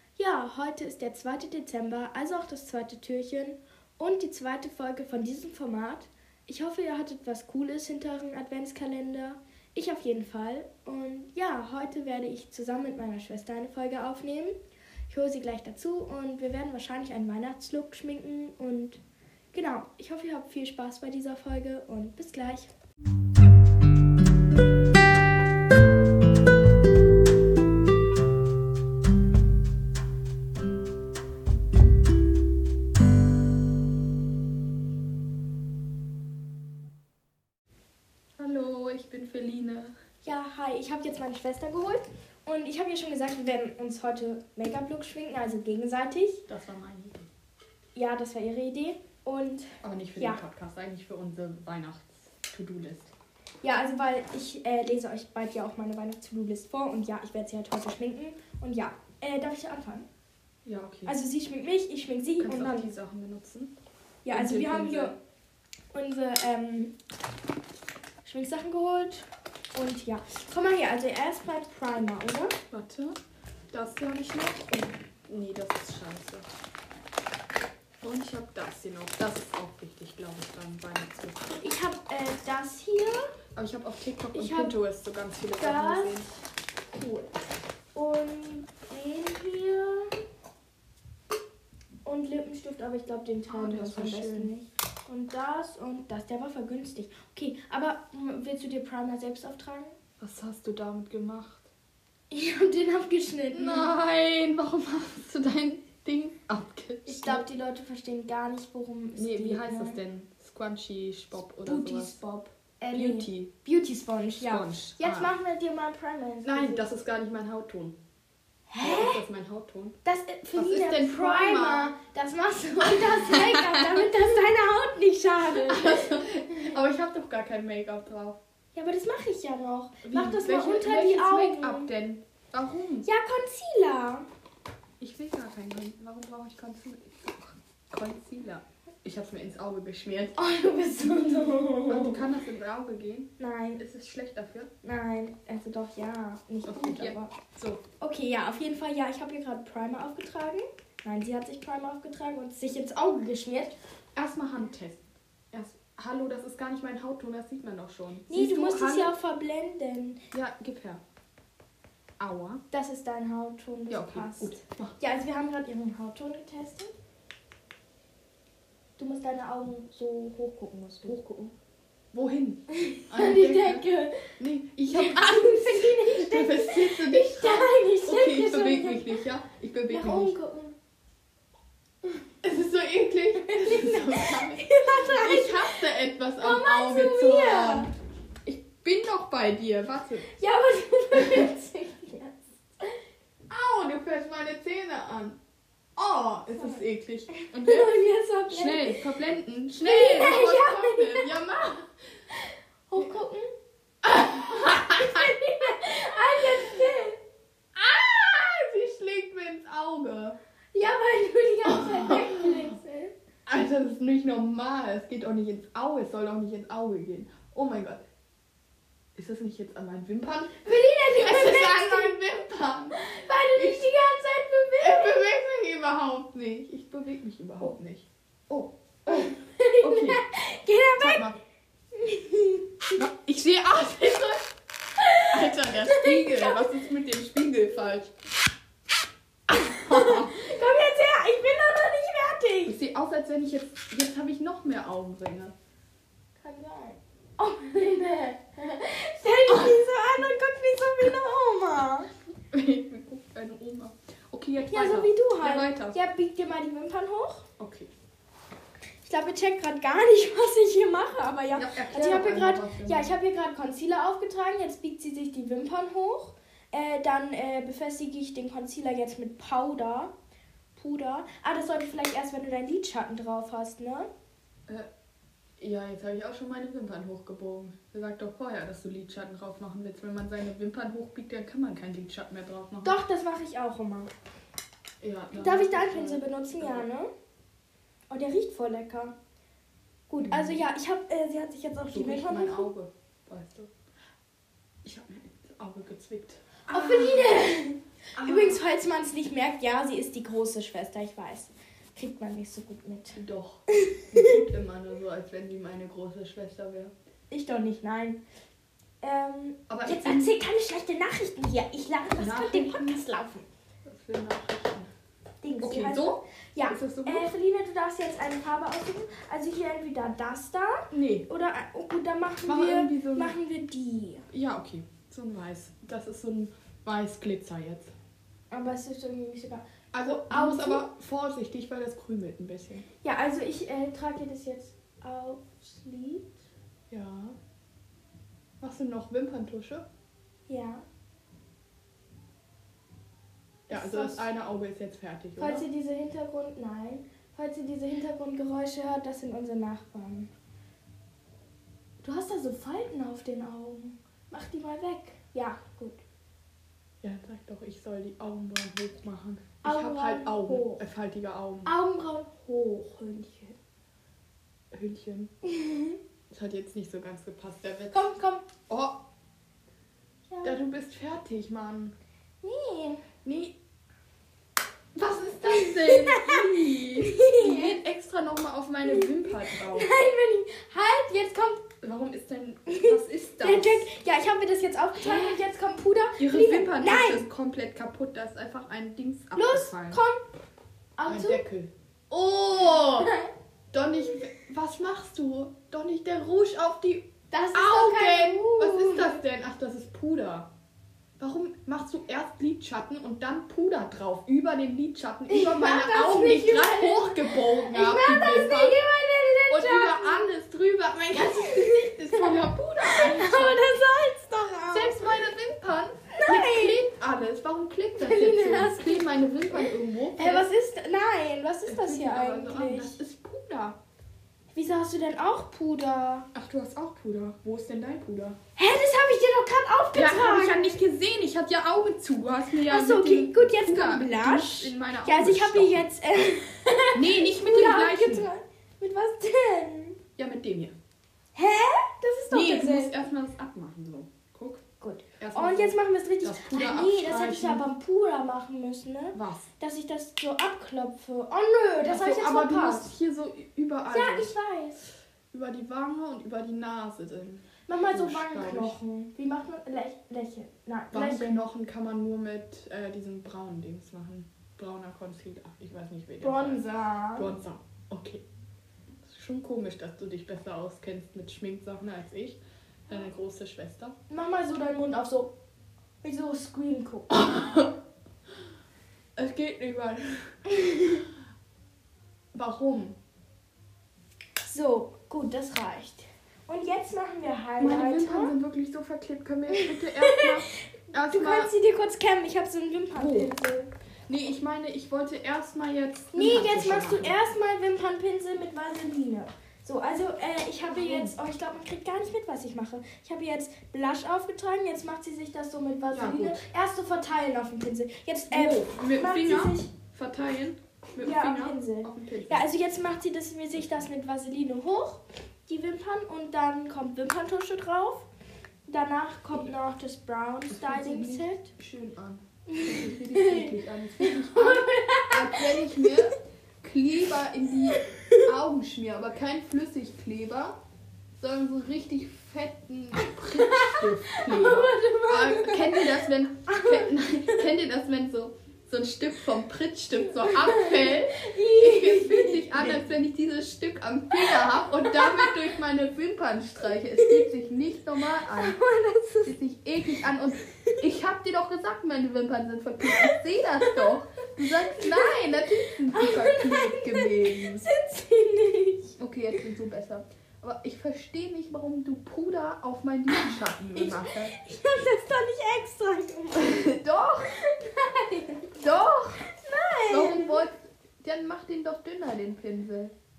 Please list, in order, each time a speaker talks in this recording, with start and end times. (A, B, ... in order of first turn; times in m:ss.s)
0:00.2-0:14.6 A
0:15.1-0:22.7 A
0:38.4-0:39.9 B
0:40.2-0:46.4 A
0:46.5-0:47.3 B
0:47.9-0:50.4 A
0:49.8-0:53.1 B
0:53.6-1:00.1 A
1:00.6-1:01.1 B
1:01.0-1:02.9 A
1:02.4-1:03.8 B
1:04.2-1:05.2 A
1:04.3-1:05.2 B
1:05.9-1:06.9 A
1:08.2-1:12.6 A
1:12.7-1:13.2 B
1:13.7-1:16.4 B
1:18.0-1:21.4 B
1:21.6-1:23.3 A
1:23.5-1:26.3 B
1:24.3-1:24.7 A
1:25.6-1:26.4 A
1:26.9-1:27.3 A
1:27.9-1:30.2 A
1:32.0-1:39.9 A
1:33.5-1:34.5 B
1:40.2-1:41.7 B
1:42.3-1:43.9 A
1:43.5-1:47.4 B
1:47.0-1:50.0 A
1:49.1-1:52.2 B
1:51.6-1:56.8 A
1:52.9-1:53.5 B
1:54.4-1:55.3 B
1:56.4-1:58.0 B
1:58.7-1:59.2 A
1:58.8-2:00.0 B
2:00.0-2:06.6 A
2:00.5-2:01.9 B
2:02.8-2:04.1 B
2:05.5-2:08.4 B
2:08.7-2:11.9 A
2:10.0-2:13.1 B
2:13.0-2:14.2 A
2:15.0-2:20.4 B
2:20.4-2:22.3 A
2:21.9-2:24.7 B
2:23.4-2:23.8 A
2:24.8-2:27.3 A
2:26.6-2:27.8 B
2:28.0-2:33.7 A
2:34.2-2:39.1 B
2:38.3-2:40.2 A
2:40.3-2:41.0 B
2:42.2-2:42.6 B
2:42.7-2:46.9 A
2:43.9-2:45.0 B
2:49.0-2:51.2 A
2:51.0-2:51.5 B
2:52.1-2:53.8 B
2:52.7-2:54.3 A
2:54.4-3:00.3 B
2:54.9-2:59.1 A
2:59.9-3:00.7 A
3:02.4-3:07.9 B
3:03.4-3:05.8 A
3:06.4-3:07.9 A
3:08.4-3:10.3 B
3:10.3-3:13.0 A
3:13.5-3:15.4 B
3:16.0-3:21.9 B
3:16.6-3:19.0 A
3:19.8-3:21.5 A
3:22.3-3:23.5 A
3:24.0-3:25.3 B
3:24.2-3:27.2 A
3:27.7-3:30.4 B
3:30.7-3:33.1 A
3:31.6-3:32.7 B
3:33.4-3:38.0 B
3:39.2-3:43.0 B
3:40.6-3:42.2 A
3:42.9-3:45.2 A
3:43.5-3:43.8 B
3:44.8-3:50.2 B
3:49.1-3:51.3 A
3:51.0-3:51.4 B
3:51.9-3:52.9 A
3:52.9-3:54.5 B
3:55.0-3:56.7 A
3:55.3-3:58.1 B
3:59.5-4:02.8 A
3:59.7-4:00.3 B
4:02.6-4:05.5 B
4:06.4-4:12.1 A
4:09.5-4:09.8 B
4:12.5-4:16.0 B
4:14.6-4:17.4 A
4:17.6-4:17.9 B
4:19.0-4:30.1 A
4:21.5-4:23.1 B
4:30.8-4:34.1 A
4:35.6-4:43.0 B
4:42.8-4:44.1 A
4:45.0-4:46.8 B
4:45.3-4:47.1 A
4:48.1-4:49.1 A
4:50.1-4:52.7 A
4:50.2-4:50.6 B
4:51.9-4:53.7 B
4:54.8-4:57.5 B
4:56.7-5:03.2 A
4:58.2-4:58.6 B
5:03.1-5:06.9 B
5:03.7-5:04.4 A
5:07.3-5:08.2 A
5:09.0-5:13.4 A
5:09.7-5:10.3 B
5:12.2-5:13.0 B
5:13.8-5:14.9 B
5:15.4-5:24.2 A
5:15.6-5:17.3 B
5:20.9-5:21.3 B
5:22.4-5:23.4 B
5:24.3-5:27.9 B
5:28.5-5:30.8 A
5:29.9-5:32.8 B
5:33.0-5:36.4 A
5:36.9-5:37.4 B
5:38.6-5:39.8 B
5:40.5-5:40.8 A
5:43.7-5:44.3 A
5:43.7-5:45.6 B
5:45.4-5:50.3 A
5:52.0-5:56.0 A
5:57.0-6:01.7 B
5:59.6-6:00.8 A
6:01.6-6:03.6 A
6:04.7-6:05.3 B
6:05.4-6:06.0 A
6:06.3-6:08.1 B
6:07.9-6:08.4 A
6:08.7-6:09.0 B
6:10.3-6:10.6 A
6:10.4-6:11.9 B
6:12.4-6:13.0 A
6:13.2-6:13.6 B
6:14.9-6:19.9 B
6:15.4-6:17.8 A
6:18.8-6:21.6 A
6:21.8-6:23.9 B
6:22.7-6:27.2 A
6:25.0-6:25.4 B
6:26.2-6:30.0 B
6:29.3-6:30.2 A
6:31.0-6:31.4 A
6:31.0-6:33.1 B
6:32.6-6:33.3 A
6:33.7-6:40.5 B
6:37.3-6:39.2 A
6:41.2-6:48.8 B
6:45.3-6:50.3 A
6:49.5-6:53.8 B
6:51.1-6:55.1 A
6:54.7-7:00.5 B
6:56.1-6:56.8 A
6:58.0-7:03.0 A
7:01.6-7:03.8 B
7:04.5-7:06.3 A
7:06.3-7:08.4 B
7:08.6-7:10.8 A
7:09.9-7:15.8 B
7:12.6-7:20.0 A
7:16.9-7:18.3 B
7:20.2-7:20.7 B
7:21.3-7:23.0 A
7:22.3-7:24.6 B
7:24.8-7:32.9 A
7:25.2-7:27.6 B
7:29.1-7:29.5 B
7:31.8-7:34.3 B
7:33.9-7:34.8 A
7:35.3-7:38.8 B
7:37.7-7:41.4 A
7:40.9-7:46.6 B
7:46.2-7:47.3 A
7:47.2-7:48.2 B
7:49.0-7:54.0 B
7:54.1-7:55.3 A
7:56.0-7:57.1 A
7:57.1-7:57.7 B
7:59.2-8:00.4 B
8:00.5-8:01.0 A
8:02.3-8:03.0 B
8:04.4-8:08.3 A
8:07.6-8:11.5 B
8:09.5-8:10.5 A
8:11.1-8:13.7 A
8:12.9-8:13.3 B
8:14.1-8:17.2 B
8:16.1-8:29.7 A
8:20.7-8:21.2 B
8:25.9-8:26.4 B
8:28.3-8:32.4 B
8:31.0-8:38.1 A
8:38.7-8:41.5 A
8:40.5-8:50.6 B
8:42.5-8:46.0 A
8:47.7-8:48.2 A
8:51.2-9:08.6 B
8:53.3-8:57.4 A
8:59.9-9:02.8 A
9:04.1-9:05.5 A
9:07.0-9:07.3 A
9:08.2-9:09.4 A
9:09.2-9:17.7 B
9:12.8-9:13.9 A
9:14.7-9:19.0 A
9:19.0-9:24.3 B
9:23.1-9:26.7 A
9:26.3-9:27.3 B
9:27.3-9:28.5 A
9:28.5-9:29.3 B
9:29.2-9:30.4 A
9:29.9-9:32.9 B